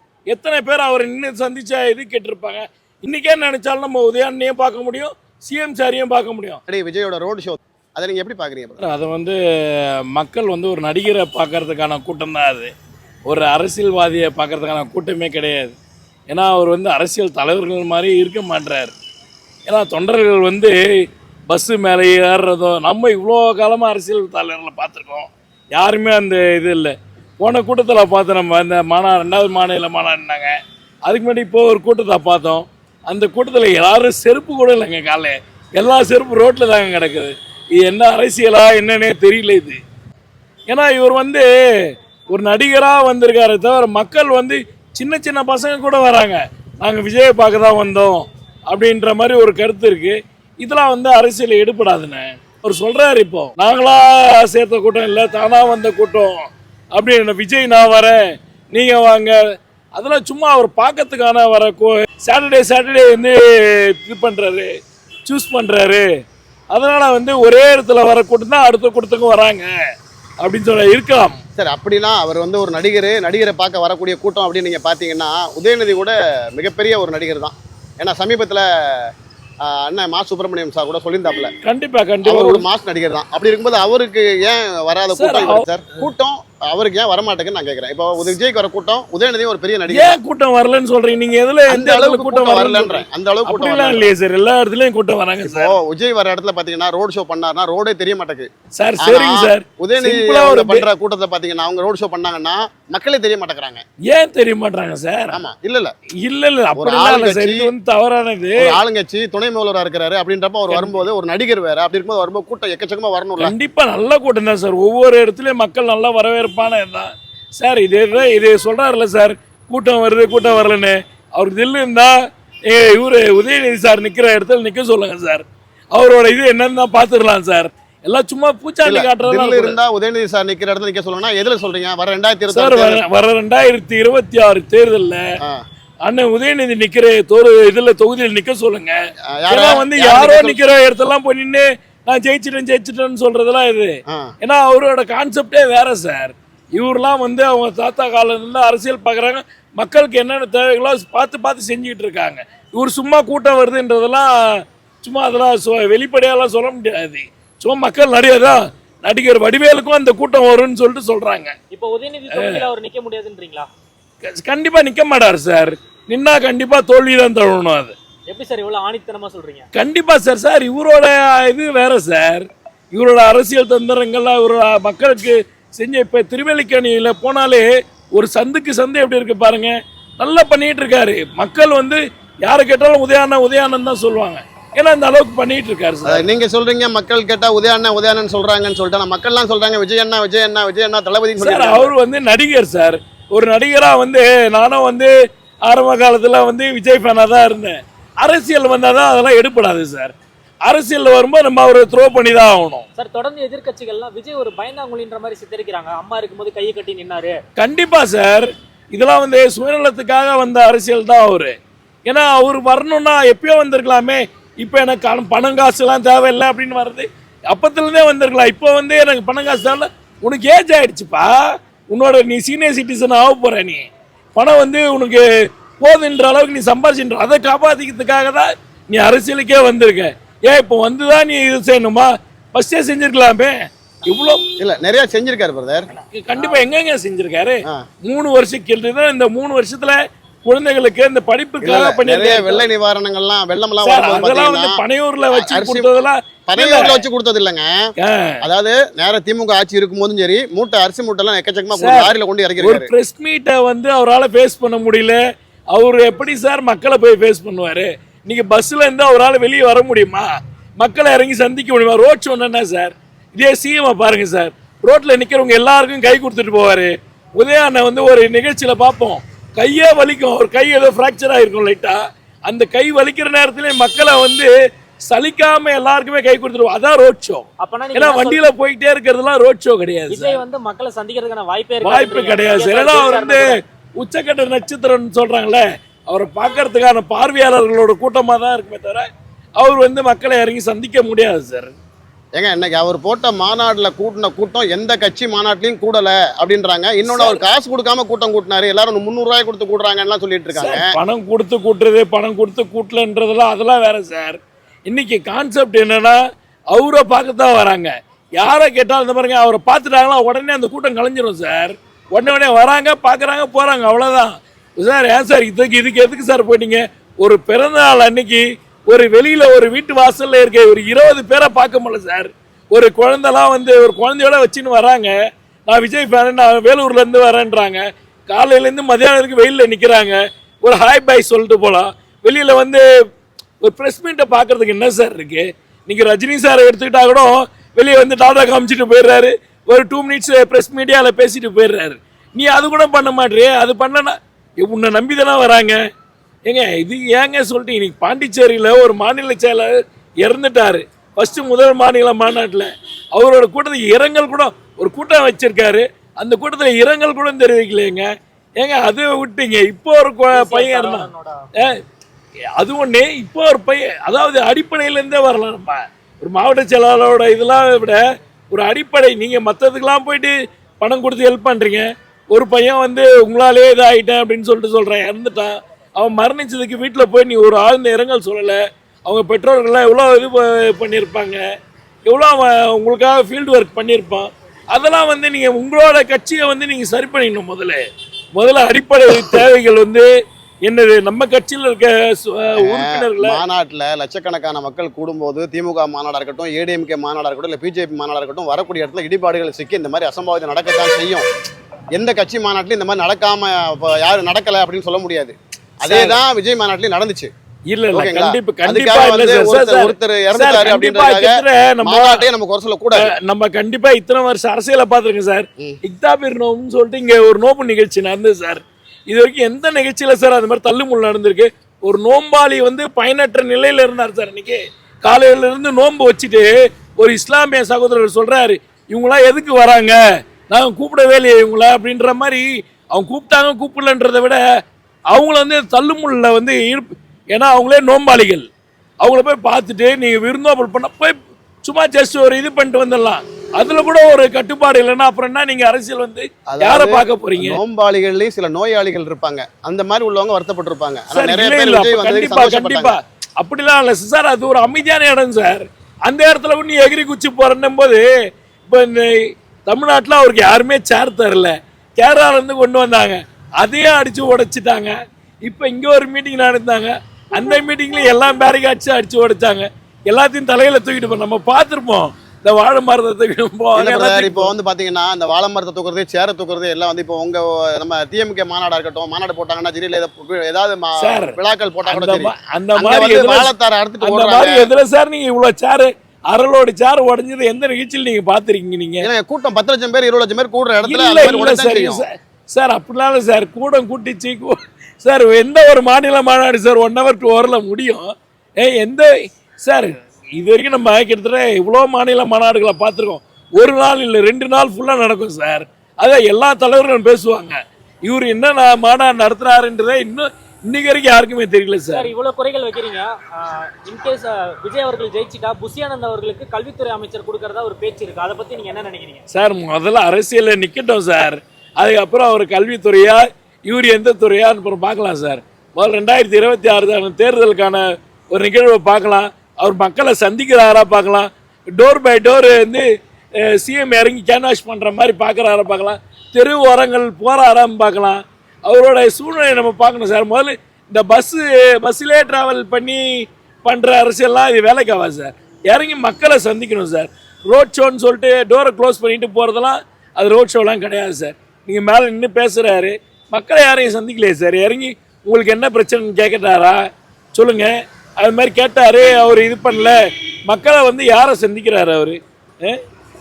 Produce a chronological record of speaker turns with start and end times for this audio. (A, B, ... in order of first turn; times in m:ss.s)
0:00.3-0:06.6 A
0:06.7-0:08.8 B
0:08.8-0:12.7 A
0:13.2-0:15.8 A
0:16.3-0:18.9 A
0:19.6-0:30.5 A
0:31.0-0:39.8 A
0:40.7-0:59.4 A
0:59.9-1:04.7 A
1:05.2-1:06.1 A
1:06.7-1:09.7 A
1:10.4-1:11.4 A
1:11.6-1:19.1 B
1:19.6-1:21.5 B
1:21.6-1:22.6 A
1:22.2-1:30.2 B
1:25.2-1:25.6 A
1:29.9-1:35.8 A
1:31.7-1:34.1 B
1:35.4-1:38.5 B
1:38.8-1:40.8 A
1:39.0-1:43.8 B
1:44.1-1:45.4 A
1:45.3-1:45.9 B
1:46.2-1:48.8 A
1:46.8-1:47.7 B
1:48.6-1:53.5 B
1:50.7-1:51.0 A
1:53.4-2:09.8 A
2:08.8-2:13.0 B
2:12.5-2:15.2 A
2:16.0-2:18.9 A
2:19.3-2:20.6 B
2:19.5-2:41.5 A
2:24.1-2:24.3 B
2:41.7-2:43.7 C
2:42.3-2:42.6 A
2:44.2-2:47.9 A
2:48.3-2:49.7 C
2:49.7-3:06.2 A
3:06.0-3:11.9 B
3:11.4-3:15.1 A
3:15.6-3:20.1 A
3:20.6-3:22.9 A
3:23.0-3:27.4 C
3:27.6-3:31.5 A
3:32.0-3:45.2 A
3:45.8-3:54.5 A
3:54.6-3:55.9 B
3:56.1-4:02.7 A
4:01.6-4:05.9 B
4:03.8-4:07.0 A
4:06.5-4:07.9 B
4:08.0-4:08.4 A
4:08.4-4:12.9 B
4:11.8-4:15.2 A
4:15.7-4:34.5 A
4:35.0-4:40.4 A
4:37.6-4:38.5 C
4:40.1-4:43.5 C
4:41.8-4:49.1 A
4:49.6-4:51.7 A
4:52.4-5:00.9 B
4:57.0-4:57.4 A
5:00.5-5:06.2 A
5:06.7-5:25.1 A
5:25.7-5:32.8 A
5:33.6-5:45.8 A
5:46.5-5:49.7 A
5:50.2-6:01.8 A
6:00.3-6:01.4 C
6:02.6-6:21.4 A
6:22.1-6:27.8 A
6:28.3-6:30.1 A
6:30.6-6:33.4 A
6:32.6-6:41.2 B
6:41.9-6:47.3 B
6:45.8-6:46.2 A
6:47.7-6:52.2 A
6:47.9-6:53.1 B
6:53.0-7:10.0 A
7:10.5-7:14.4 A
7:15.1-7:18.4 A
7:19.0-7:27.6 A
7:26.5-7:33.0 B
7:31.1-7:38.1 A
7:38.6-7:54.5 A
7:53.8-8:04.7 B
8:01.0-8:09.0 A
8:09.0-8:12.0 B
8:10.8-8:19.1 A
8:19.6-8:32.1 A
8:31.9-8:39.2 C
8:39.3-8:52.8 A
8:53.4-9:20.0 A
9:20.5-9:22.8 A